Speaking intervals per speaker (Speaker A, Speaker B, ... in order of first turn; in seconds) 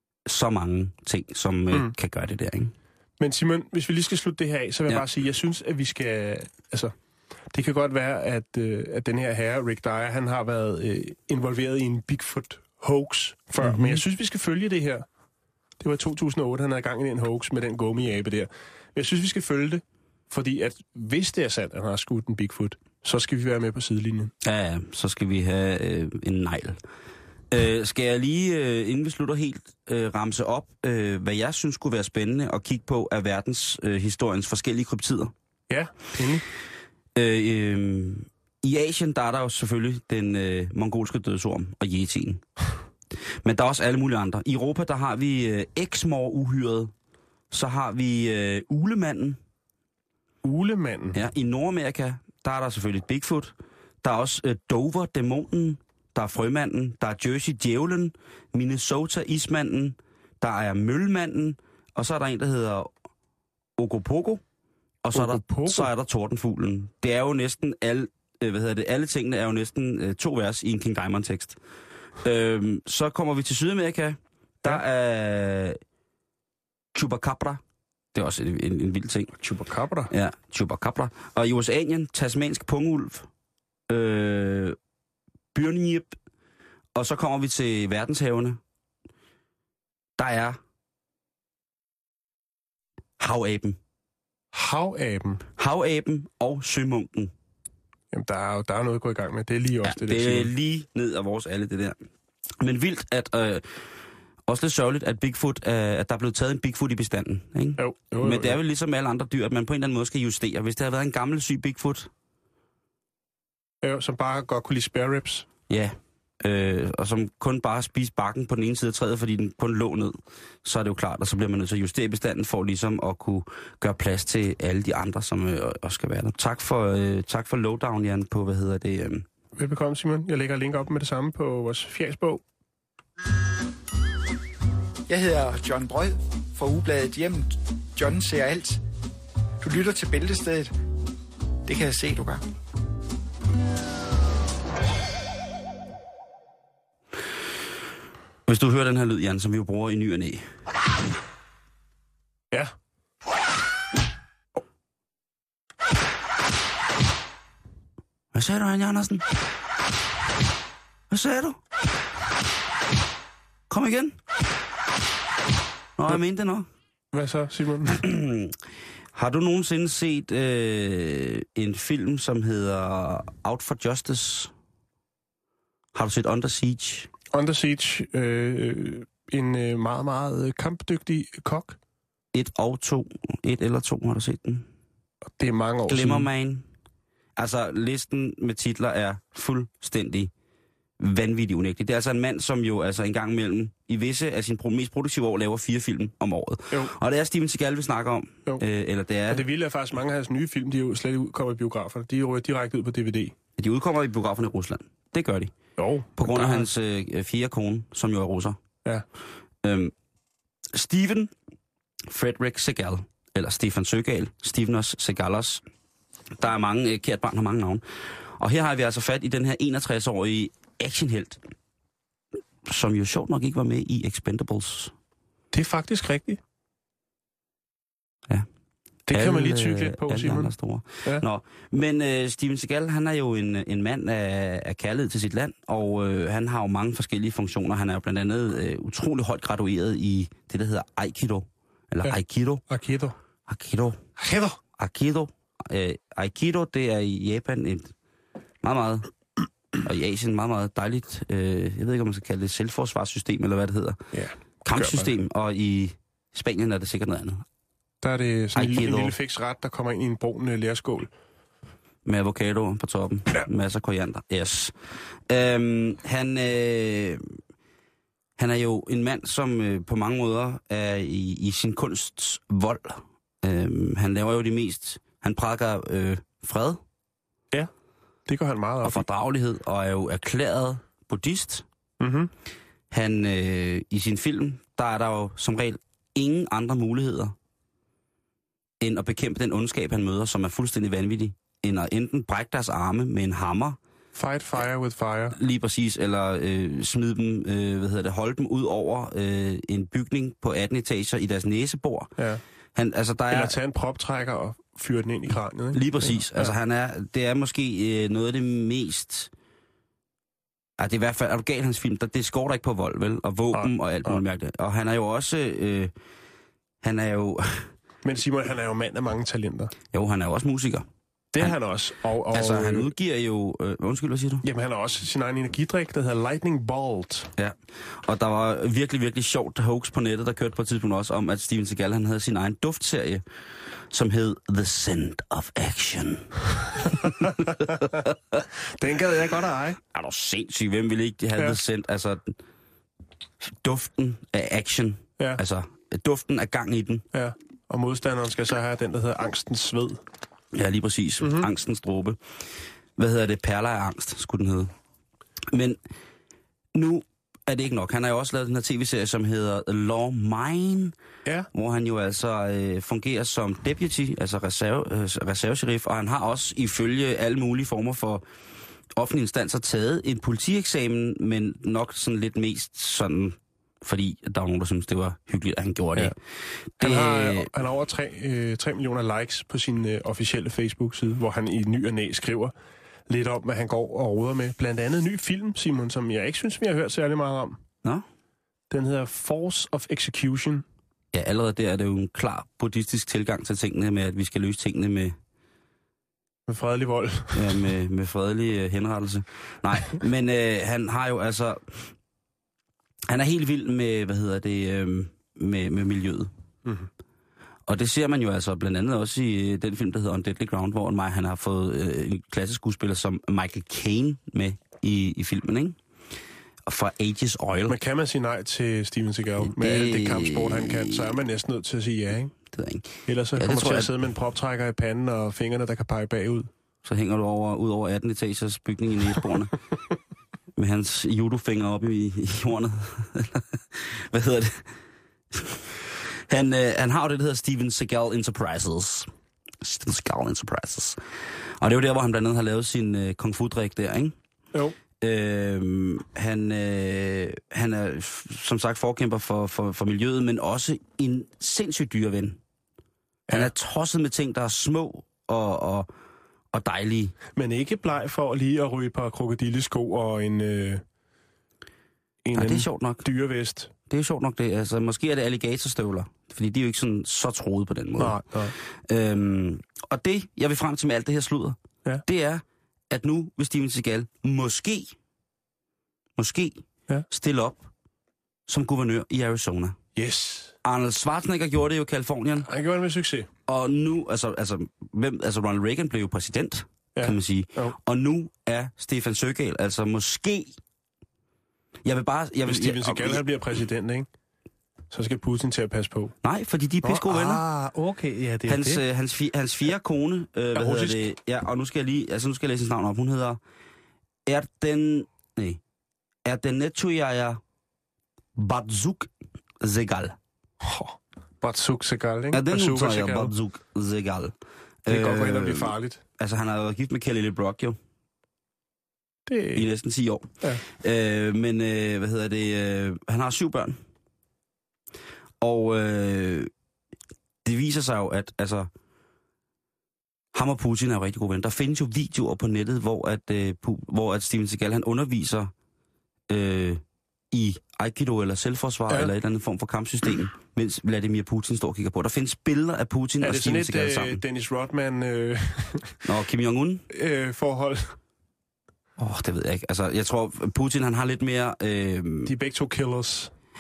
Speaker A: 0.3-2.7, 13.6-14.0, 24.4-26.8, 27.5-35.3, 37.2-42.4, 43.4-46.9, 47.5-49.4, 51.1-62.9, 63.8-64.4, 65.0-71.6, 72.2-75.8, 77.0-77.6, 78.1-79.3, 80.1-83.3, 83.9-84.8, 85.5-86.2, 87.0-88.6, 90.2-90.6, 93.2-93.8, 95.6-97.3, 99.8-102.0, 102.6-103.7, 104.5-112.1, 115.7-129.2, 148.5-150.4, 158.3-159.3, 161.1-161.6, 163.7-164.2, 166.0-166.7, 167.9-168.6, 169.2-174.5, 175.9-177.1, 182.3-184.7, 185.9-186.7, 187.4-190.3, 191.0-199.5, 203.6-205.5, 206.2-208.6, 209.6-209.9, 210.7-211.3, 212.1-215.6, 216.4-217.8, 218.4-221.4, 222.7-224.9, 229.1-242.6, 243.5-244.0, 244.8-247.9, 248.6-249.1, 249.8-254.0, 254.6-257.4, 258.6-259.2, 262.1-264.7, 265.3-267.2, 268.4-276.8, 278.8-281.6, 282.9-287.3, 288.8-293.8, 295.3-302.1, 302.8-303.6, 305.7-309.3, 310.8-315.9, 316.8-317.7, 319.9-320.9, 322.3-324.5, 327.4-333.2, 333.9-338.1, 339.9-342.4, 343.4-347.1, 350.5-352.2, 353.0-354.7, 355.5-355.8, 356.8-360.9, 361.5-368.2, 368.9-376.1, 376.8-377.5, 391.1-395.2, 397.3-401.9, 403.1-406.3, 407.7-415.8, 416.7-417.8, 419.4-421.1, 422.5-423.9, 426.8-429.6, 430.6-434.7, 435.3-435.6, 436.3-439.1, 439.6-441.0, 441.6-444.1, 445.0-452.4, 453.3-455.9, 456.5-457.1, 462.3-463.1, 463.9-468.2, 468.9-474.9, 476.2-477.7, 478.5-479.8, 480.6-482.5, 483.5-490.6, 491.9-493.2, 496.2-497.4, 498.5-503.4, 504.3-505.6, 506.2-507.4, 508.4-509.1, 509.6-510.2, 512.3-514.3, 514.9-517.8, 519.5-523.8, 525.4-526.5, 527.5-528.7, 530.3-535.5, 536.3-544.2, 546.0-546.9, 549.0-552.3
Speaker B: 3.2-6.9, 7.5-15.1, 15.8-24.3, 35.7-36.5, 50.4-51.2, 65.1-65.9, 79.4-80.1, 94.5-95.4, 98.1-100.5, 107.8-108.6, 113.8-115.5, 129.6-132.4, 167.1-168.0, 177.3-181.8, 185.4-186.3, 199.3-203.3, 205.8-206.7, 225.5-226.4, 229.1-230.5, 242.0-243.2, 244.2-244.6, 254.1-255.1, 258.0-261.1, 278.3-279.1, 282.0-282.3, 294.1-295.4, 302.2-302.4, 303.3-306.5, 313.5-314.2, 318.0-319.7, 321.3-322.9, 324.4-327.3, 338.7-339.8, 347.1-350.0, 351.2-351.5, 376.8-382.5, 383.1-387.6, 388.7-390.6, 396.5-397.6, 417.7-422.4, 423.1-426.5, 457.4-460.8, 462.2-463.7, 468.0-468.6, 480.0-480.6, 482.5-483.3, 487.0-487.8, 492.5-494.1, 494.9-496.1, 496.8-498.8, 500.5-501.1, 510.6-513.3, 514.9-516.0, 519.3-519.7, 543.2-546.0, 546.9-548.0, 552.3-553.3
Speaker C: 135.1-138.8, 139.6-140.7, 141.7-142.4